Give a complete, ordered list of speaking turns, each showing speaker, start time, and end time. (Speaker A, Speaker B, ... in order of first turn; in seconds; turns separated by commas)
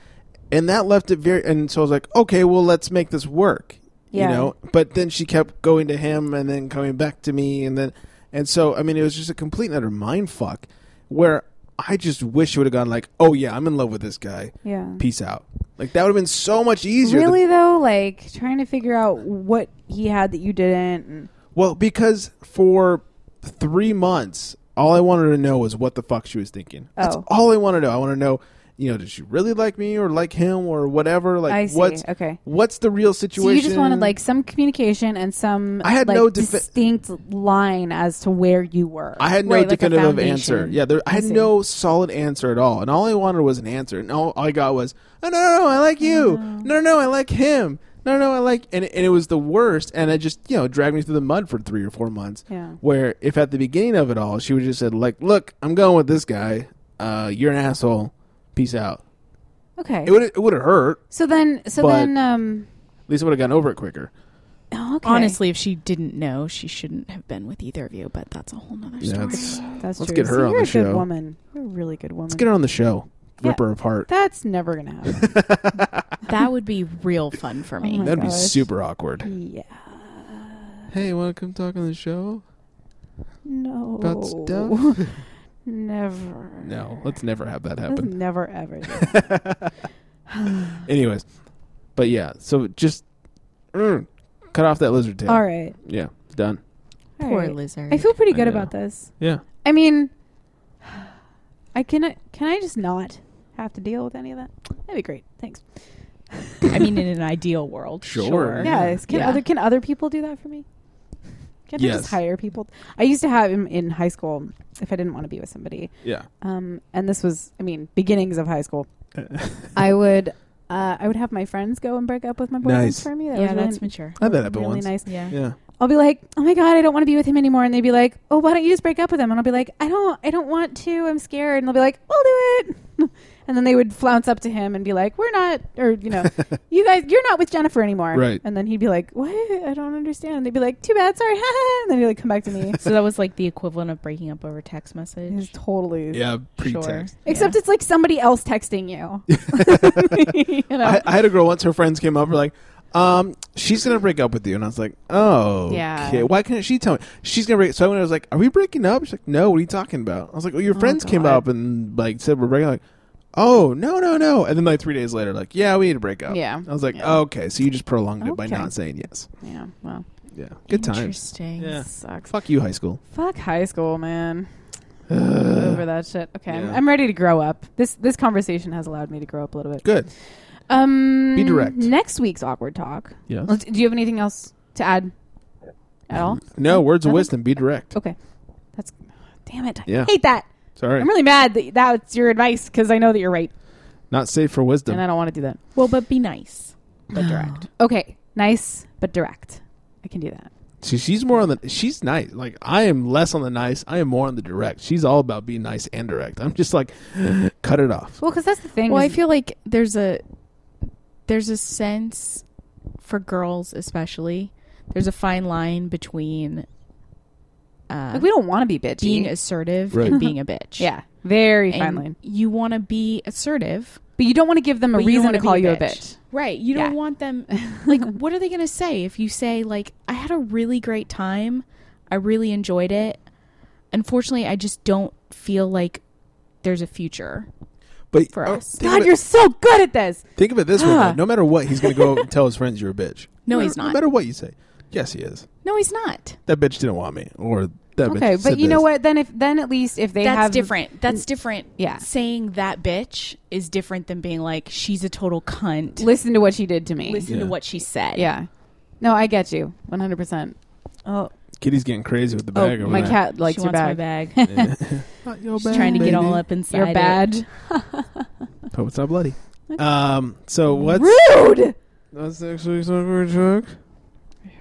Speaker A: 0.5-17.4, Speaker B: 4.1-4.5, Speaker B: 14.6-15.0, Speaker B: 17.0-21.3, Speaker A: 21.6-34.1, Speaker B: 27.0-27.3, Speaker B: 31.5-32.4, Speaker B: 33.4-41.5, Speaker A: 35.8-36.7, Speaker A: 39.2-59.0, Speaker C: 39.5-40.7, Speaker B: 46.0-46.7, Speaker B: 52.5-52.8, Speaker B: 59.8-60.2, Speaker A: 60.0-61.0, Speaker B: 61.1-62.7, Speaker A: 61.8-62.1, Speaker A: 63.1-64.1, Speaker B: 64.7-65.4, Speaker C: 65.0-69.8, Speaker A: 69.0-71.1, Speaker B: 69.8-72.5, Speaker A: 72.3-74.1, Speaker B: 73.4-75.4, Speaker A: 75.1-76.1, Speaker C: 76.3-78.2, Speaker B: 77.8-78.7, Speaker A: 78.0-79.3, Speaker B: 79.2-80.8, Speaker A: 80.9-82.4, Speaker B: 83.4-85.1, Speaker A: 84.0-85.2, Speaker B: 85.7-86.7, Speaker A: 86.6-88.1, Speaker B: 87.9-89.4, Speaker A: 88.9-89.7, Speaker B: 90.3-90.8, Speaker A: 90.8-91.3, Speaker A: 92.0-93.0, Speaker A: 93.7-96.6, Speaker B: 95.3-95.8, Speaker C: 97.2-98.1, Speaker B: 97.2-100.1, Speaker A: 98.3-99.4, Speaker B: 100.8-101.1, Speaker B: 101.7-105.7, Speaker B: 106.3-107.0, Speaker C: 106.7-109.4, Speaker A: 108.0-109.0, Speaker B: 108.6-110.7, Speaker B: 111.7-118.9, Speaker A: 111.8-112.2, Speaker A: 116.0-116.3, Speaker A: 119.2-119.7, Speaker B: 119.8-142.8, Speaker A: 122.6-123.1, Speaker C: 123.3-124.2, Speaker A: 124.2-125.6, Speaker C: 125.0-125.4, Speaker A: 138.1-138.4, Speaker C: 142.8-145.5, Speaker B: 145.3-146.3, Speaker A: 146.1-147.1, Speaker C: 146.5-147.6, Speaker B: 147.2-151.1, Speaker A: 149.3-150.2, Speaker A: 150.8-162.8, Speaker B: 155.7-156.3, Speaker B: 160.7-161.4, Speaker A: 163.3-169.3, Speaker B: 166.3-167.2, Speaker B: 168.2-170.1, Speaker A: 170.3-173.0, Speaker C: 170.7-171.9, Speaker B: 171.9-172.3, Speaker B: 173.1-174.5, Speaker A: 175.1-175.8, Speaker B: 175.4-180.0, Speaker A: 176.5-176.8, Speaker A: 179.8-180.1, Speaker B: 180.7-185.1, Speaker A: 181.3-181.9, Speaker A: 183.3-183.6, Speaker B: 186.1-188.2, Speaker A: 186.4-187.9, Speaker B: 188.8-190.5, Speaker A: 189.9-190.1, Speaker A: 190.8-191.1, Speaker B: 191.0-193.5, Speaker A: 194.1-195.0, Speaker B: 194.9-195.6, Speaker C: 195.8-197.7, Speaker B: 197.1-200.5, Speaker A: 200.8-208.2, Speaker B: 208.2-209.2, Speaker C: 208.9-210.2, Speaker C: 211.3-212.4, Speaker C: 213.0-216.7, Speaker C: 217.9-218.3, Speaker B: 218.1-219.3, Speaker C: 219.0-220.9, Speaker A: 219.9-220.2, Speaker B: 220.1-222.2, Speaker C: 221.7-224.0, Speaker B: 224.2-226.2, Speaker C: 224.9-233.2, Speaker B: 227.6-228.1, Speaker C: 233.9-236.0, Speaker C: 236.6-237.5, Speaker A: 238.1-239.1, Speaker C: 238.3-238.8, Speaker B: 238.8-241.2, Speaker A: 240.4-245.5, Speaker B: 241.8-242.1, Speaker C: 243.5-244.0, Speaker C: 245.6-246.4, Speaker A: 246.5-248.8, Speaker B: 248.1-250.7, Speaker C: 250.2-256.1, Speaker B: 251.8-252.1, Speaker B: 256.0-257.3, Speaker C: 257.1-258.3, Speaker A: 257.3-257.6, Speaker B: 258.1-258.5, Speaker B: 259.0-261.3, Speaker A: 261.6-263.2, Speaker B: 262.5-264.8, Speaker C: 262.9-264.6, Speaker A: 264.5-266.5, Speaker C: 265.6-267.3, Speaker B: 265.6-268.3, Speaker A: 268.7-271.2, Speaker B: 270.7-271.8, Speaker A: 272.1-273.8